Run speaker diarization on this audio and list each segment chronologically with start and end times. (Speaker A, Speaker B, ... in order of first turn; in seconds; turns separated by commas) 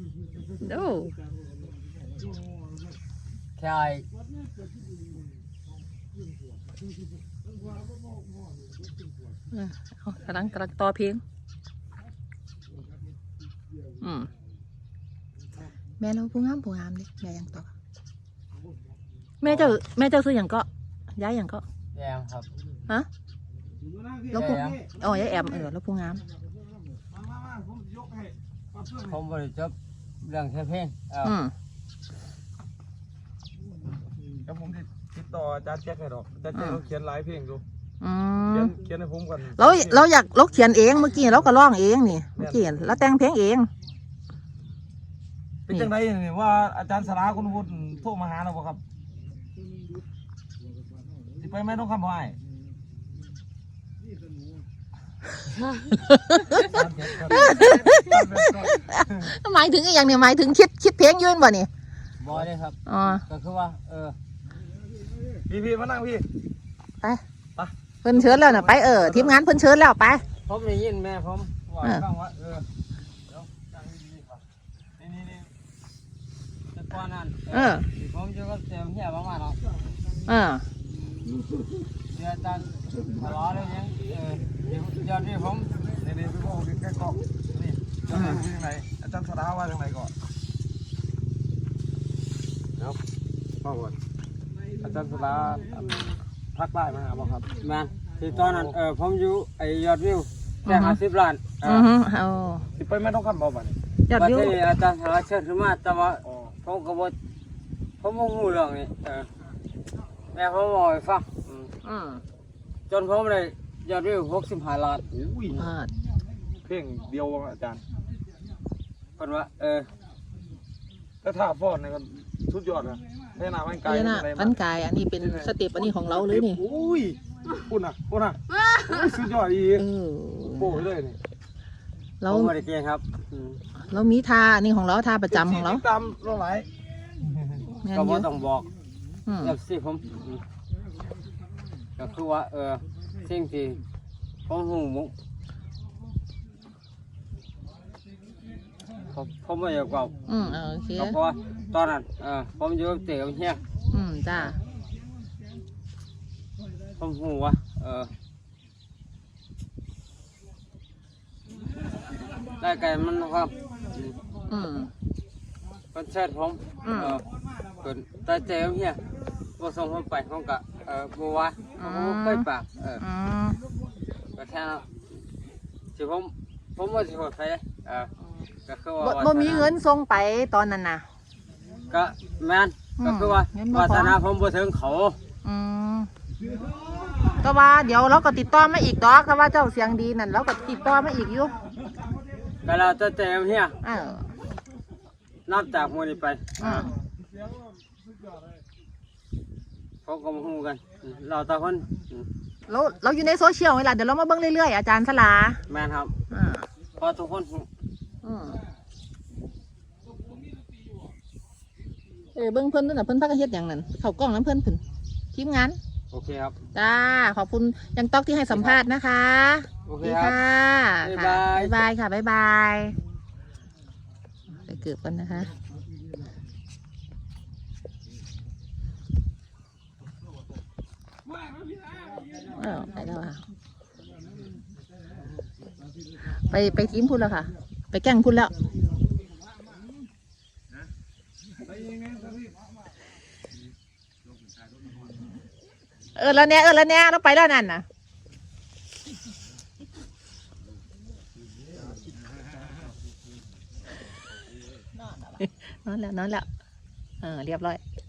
Speaker A: 0.6-1.2, Speaker B: 3.6-4.1, Speaker A: 9.5-11.2, Speaker A: 14.0-14.3, Speaker A: 16.0-17.7, Speaker A: 19.4-21.6, Speaker B: 19.4-19.7, Speaker B: 21.9-22.5, Speaker B: 24.3-24.8, Speaker A: 24.3-26.2, Speaker B: 28.9-31.4, Speaker A: 31.2-31.5, Speaker C: 34.5-37.6, Speaker A: 36.5-36.8, Speaker A: 38.0-38.8, Speaker C: 38.5-40.0, Speaker A: 39.6-43.7, Speaker C: 42.4-42.7, Speaker C: 45.7-48.8, Speaker C: 51.4-52.4, Speaker A: 56.0-61.7, Speaker B: 56.5-57.7, Speaker C: 56.7-58.8, Speaker B: 62.2-62.8, Speaker A: 62.9-63.2, Speaker B: 63.3-64.2, Speaker C: 65.5-66.3, Speaker A: 68.0-70.2, Speaker C: 68.3-69.3, Speaker B: 70.5-72.7, Speaker B: 73.5-74.4, Speaker B: 75.0-75.4, Speaker B: 76.7-79.6, Speaker A: 77.5-77.9, Speaker A: 80.3-80.7, Speaker B: 82.1-85.8, Speaker C: 86.0-90.1, Speaker A: 88.1-88.5, Speaker C: 94.8-97.5, Speaker B: 97.6-101.9, Speaker A: 100.7-101.0, Speaker A: 101.6-102.7, Speaker C: 102.8-103.8, Speaker A: 104.1-104.6, Speaker B: 104.1-107.2, Speaker B: 108.0-109.3, Speaker B: 110.3-111.7, Speaker A: 111.8-112.2, Speaker B: 112.9-115.1, Speaker C: 115.2-115.5, Speaker A: 115.5-115.9, Speaker C: 116.7-117.8, Speaker B: 119.2-119.9, Speaker C: 121.2-124.5, Speaker A: 123.8-126.6, Speaker C: 126.3-129.8, Speaker A: 129.7-130.9, Speaker C: 130.6-131.2, Speaker A: 132.2-132.5, Speaker B: 132.3-133.6, Speaker A: 133.8-135.9, Speaker C: 135.4-136.7, Speaker A: 137.8-138.3, Speaker B: 137.9-138.7, Speaker A: 139.3-139.6, Speaker B: 139.4-140.4, Speaker B: 142.0-143.8, Speaker B: 144.5-145.1, Speaker B: 149.1-150.2, Speaker A: 150.3-151.2, Speaker B: 150.9-153.6, Speaker A: 153.9-154.6, Speaker B: 157.0-158.1, Speaker B: 162.4-164.2, Speaker A: 164.5-164.9, Speaker B: 165.9-167.3, Speaker A: 166.8-167.2, Speaker B: 167.8-169.0, Speaker B: 169.6-173.0, Speaker A: 171.8-173.6, Speaker B: 174.3-175.0, Speaker B: 175.9-178.1, Speaker B: 178.7-179.7, Speaker A: 179.0-181.1, Speaker B: 181.9-185.2, Speaker A: 183.0-184.2, Speaker A: 185.4-186.1, Speaker A: 187.4-191.6, Speaker B: 192.6-193.8, Speaker A: 193.8-194.3, Speaker B: 195.5-196.9, Speaker A: 196.6-196.9, Speaker B: 200.1-202.3, Speaker A: 202.7-205.6, Speaker B: 205.7-206.1, Speaker A: 206.3-206.7, Speaker B: 207.0-207.7, Speaker A: 208.2-208.6, Speaker A: 212.3-214.8, Speaker A: 215.3-215.8, Speaker B: 216.1-216.6, Speaker A: 216.7-223.0, Speaker B: 218.5-218.8, Speaker B: 219.9-220.4, Speaker B: 221.0-221.8, Speaker A: 224.6-225.5, Speaker A: 232.5-233.4, Speaker A: 236.5-238.5, Speaker A: 246.2-247.8, Speaker A: 255.0-256.5, Speaker A: 257.2-257.8